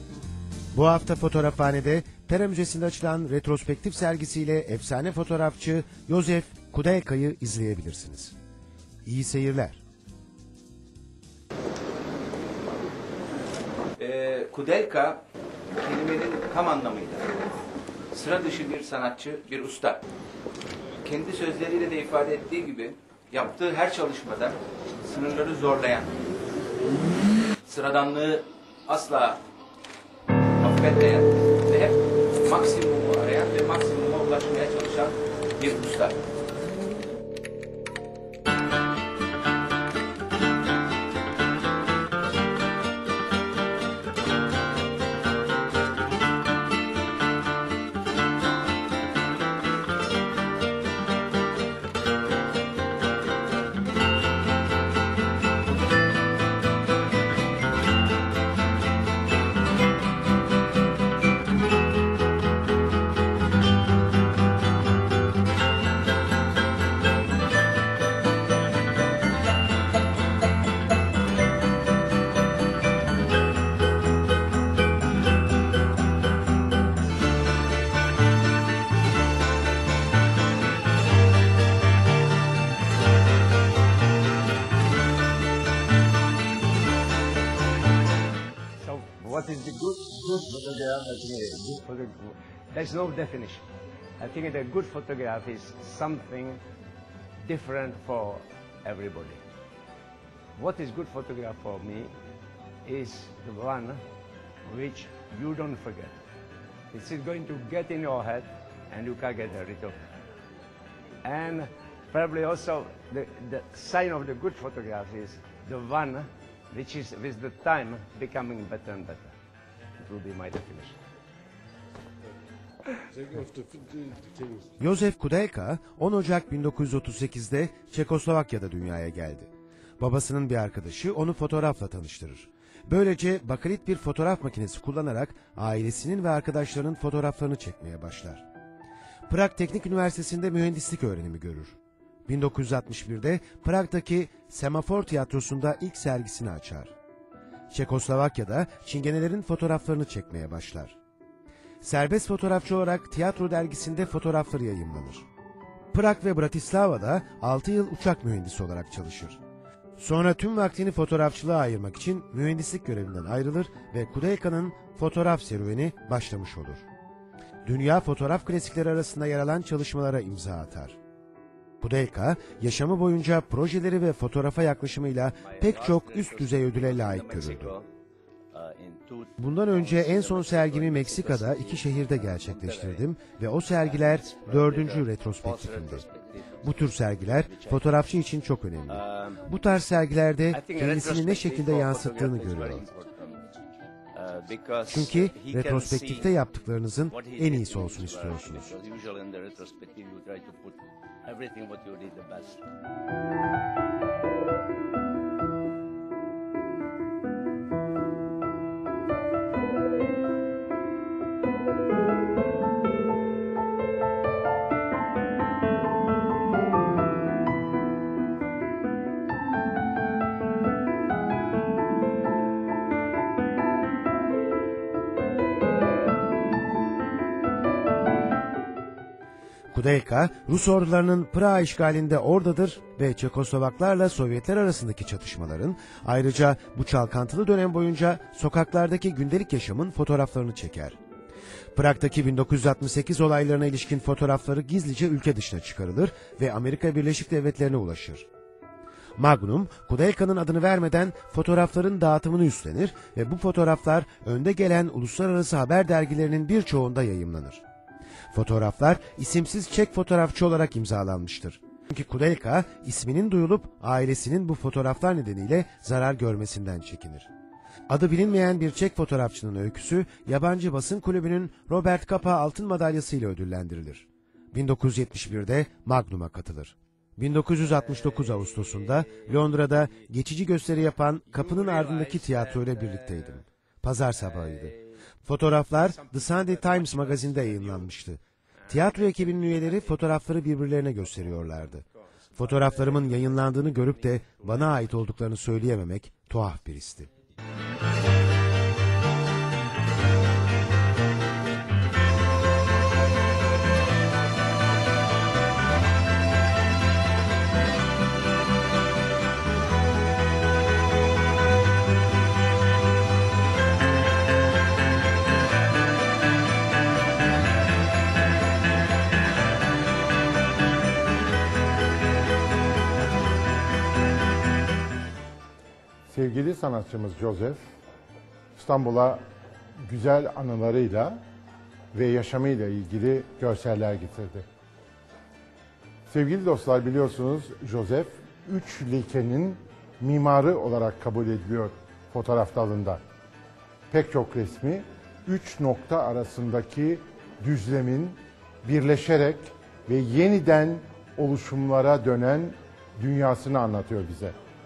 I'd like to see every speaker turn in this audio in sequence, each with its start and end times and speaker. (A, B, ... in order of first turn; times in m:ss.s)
0:00.7-0:08.3 A
0:09.0-0:09.8 A
0:14.0-0:15.2 B
0:15.8-0:17.3 B
0:18.1-0:20.0 B
0:21.0-0:26.2 B
0:27.6-0:29.4 B
0:30.6-0:36.2 B
1:28.8-1:33.6 C
1:34.2-1:36.6 C
1:37.4-1:39.4 C
1:40.6-1:42.1 C
1:42.8-1:44.0 C
1:44.6-1:46.2 C
1:46.9-1:50.0 C
1:51.2-1:59.3 C
2:00.0-2:01.0 C
2:04.8-2:18.4 A
2:19.3-2:26.9 A
2:27.7-2:31.0 A
2:31.8-2:35.2 A
2:35.9-2:39.4 A
2:40.0-2:46.9 A
2:47.6-2:51.0 A
2:51.8-2:57.7 A
2:55.5-2:57.8 D
2:58.5-3:03.0 D
2:59.4-3:06.0 A
3:03.9-3:07.9 D
3:06.6-3:12.8 A
3:10.5-3:13.4 D
3:14.2-3:16.3 D
3:14.9-3:18.7 A
3:17.1-3:20.7 D
3:21.2-3:22.6 D
3:49.7-4:01.0 A
4:01.7-4:08.3 A
4:09.2-4:17.6 A
4:18.3-4:27.3 A
4:27.9-4:51.8 A
4:42.0-4:42.3 C
4:46.9-4:47.7 C
4:48.7-4:49.5 C
4:52.4-4:57.1 A
4:52.4-4:53.6 C
5:26.1-5:27.6 D
5:28.6-5:29.2 D
5:29.9-5:31.2 D
5:31.9-5:34.4 D
5:36.1-5:43.0 D
5:43.9-5:54.3 D